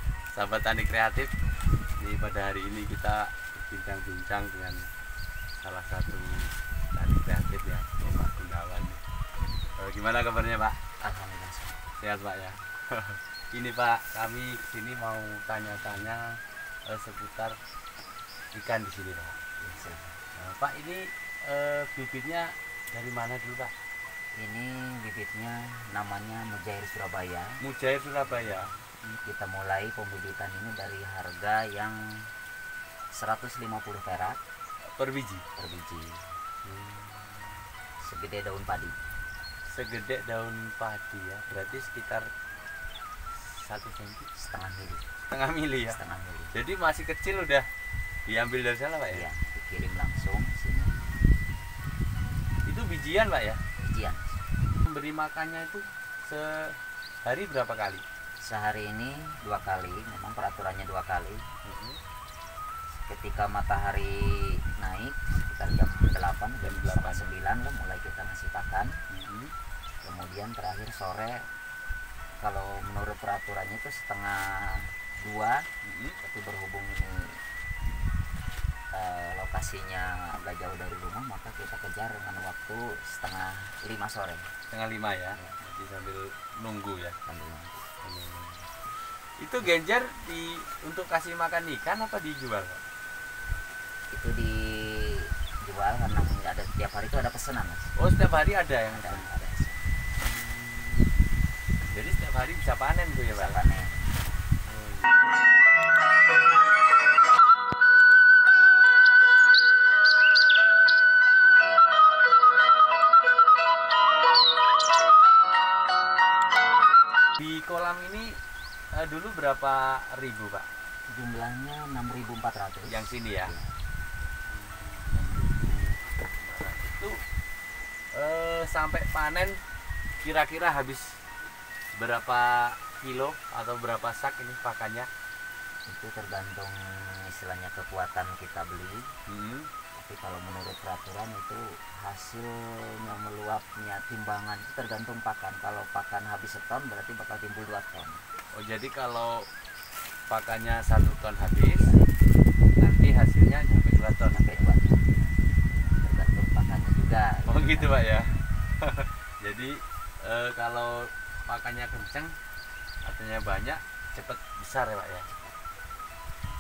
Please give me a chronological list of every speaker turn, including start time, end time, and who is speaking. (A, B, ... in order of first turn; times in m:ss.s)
0:00.3-0:01.3 A
0:02.0-0:04.9 A
0:05.6-0:09.0 A
0:09.8-0:10.8 A
0:11.0-0:11.8 B
0:12.0-0:17.6 A
0:18.6-0:19.4 A
0:19.6-0:20.2 B
0:20.4-0:23.7 A
0:24.4-0:27.6 B
0:27.6-0:28.7 A
0:29.0-0:32.3 B
0:33.1-0:34.4 B
0:34.9-0:35.4 A
0:35.6-0:36.3 B
0:36.6-0:37.6 A
0:38.0-0:39.0 B
0:39.7-0:42.3 A
0:43.3-0:44.3 A
0:44.4-0:45.1 B
0:45.3-0:46.0 A
0:45.9-0:46.6 B
0:46.5-0:47.7 A
0:48.3-0:49.2 A
0:49.1-0:51.1 B
0:52.7-0:53.6 A
0:53.8-0:54.4 B
0:54.8-0:58.0 A
0:58.4-1:01.5 B
1:01.6-1:02.0 A
1:02.9-1:08.9 B
1:06.6-1:07.3 A
1:09.1-1:09.5 A
1:10.0-1:11.5 B
1:12.4-1:15.7 B
1:15.8-1:16.2 A
1:16.2-1:17.4 B
1:18.9-1:24.5 B
1:24.7-1:27.2 A
1:25.3-1:25.6 B
1:27.3-1:27.9 B
1:28.0-1:32.8 A
1:34.1-1:38.0 B
1:38.0-1:39.3 A
1:38.9-1:39.9 B
1:40.2-1:41.1 A
1:41.9-1:43.6 A
1:43.3-1:44.2 B
1:44.6-1:45.1 A
1:57.4-1:58.4 A
1:58.9-2:00.7 A
2:01.1-2:03.8 B
2:02.9-2:03.5 A
2:04.5-2:07.2 A
2:08.1-2:09.6 A
2:10.2-2:11.2 A
2:11.9-2:15.1 A
2:15.9-2:19.2 B
2:19.3-2:19.7 A
2:19.9-2:28.2 B
2:28.6-2:29.5 A
2:30.3-2:31.9 A
2:31.7-2:32.2 B
2:32.8-2:34.6 A
2:34.3-2:35.3 B
2:36.0-2:38.0 B
2:37.5-2:42.4 A
2:43.0-2:45.3 A
2:45.3-2:45.6 B